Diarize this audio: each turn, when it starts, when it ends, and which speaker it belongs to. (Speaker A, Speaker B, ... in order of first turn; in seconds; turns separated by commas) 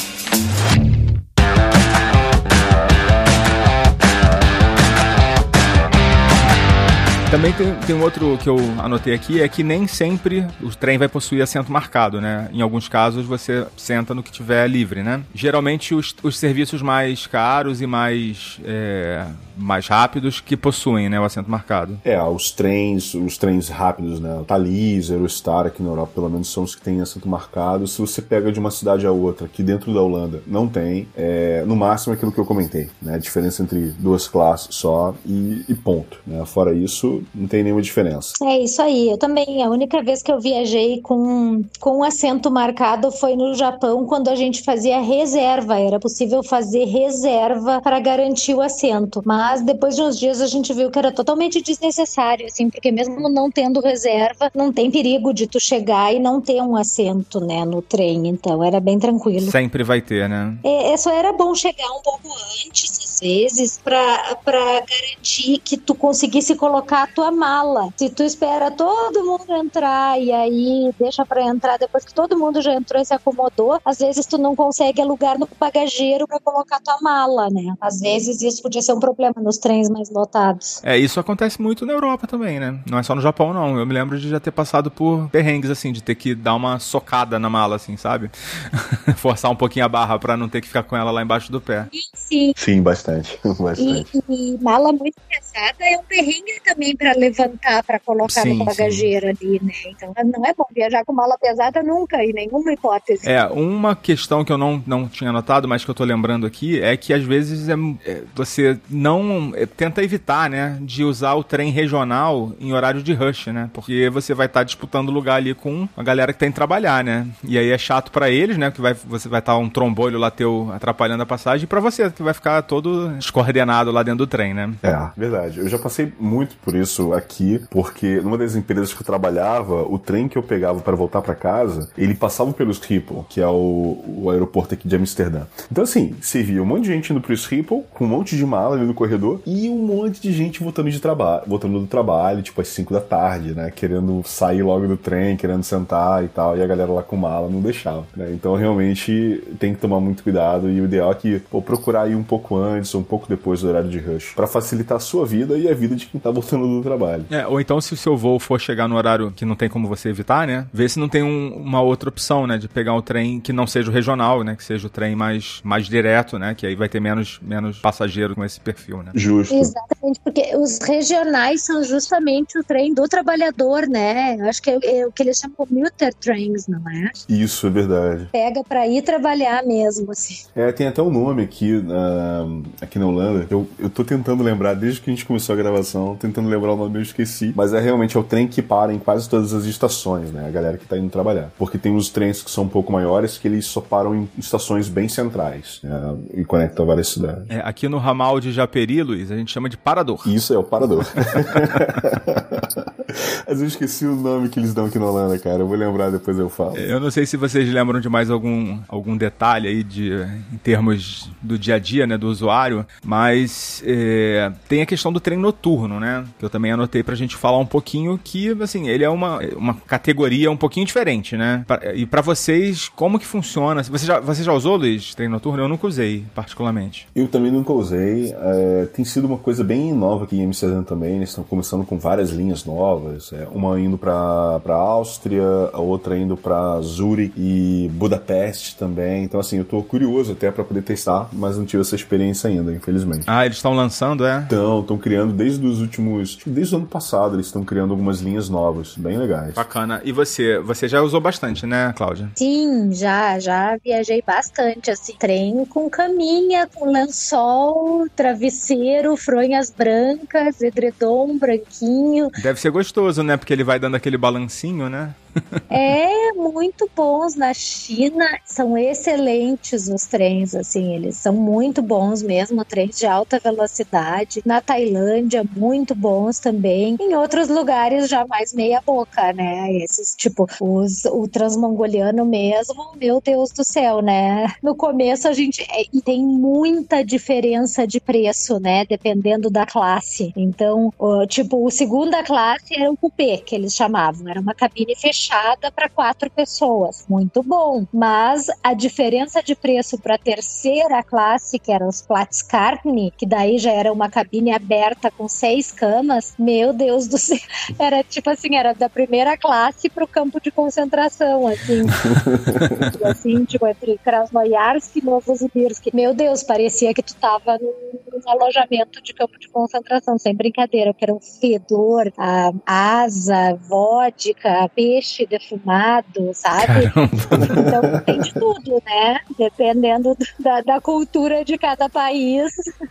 Speaker A: 7.3-22.0, Speaker B: 22.0-38.3, Speaker C: 38.4-59.5, Speaker A: 59.4-60.6, Speaker C: 60.6-80.8, Speaker A: 80.8-91.9, Speaker C: 91.9-92.5, Speaker B: 92.6-94.1, Speaker C: 93.8-103.3, Speaker A: 98.2-99.1, Speaker A: 103.2-124.8, Speaker B: 124.8-157.3, Speaker A: 157.3-169.1, Speaker B: 169.1-169.7, Speaker C: 169.5-177.2, Speaker B: 177.3-178.3, Speaker C: 178.3-180.4, Speaker B: 180.5-197.5, Speaker A: 197.5-200.3, Speaker B: 200.2-206.8, Speaker A: 206.7-227.1, Speaker B: 227.1-243.3, Speaker A: 243.3-244.5, Speaker B: 244.5-249.6, Speaker A: 249.6-252.3, Speaker C: 252.4-262.4, Speaker A: 262.4-265.6, Speaker C: 265.7-312.0, Speaker B: 312.0-312.9, Speaker C: 312.8-332.5, Speaker A: 326.6-327.5, Speaker B: 327.4-328.0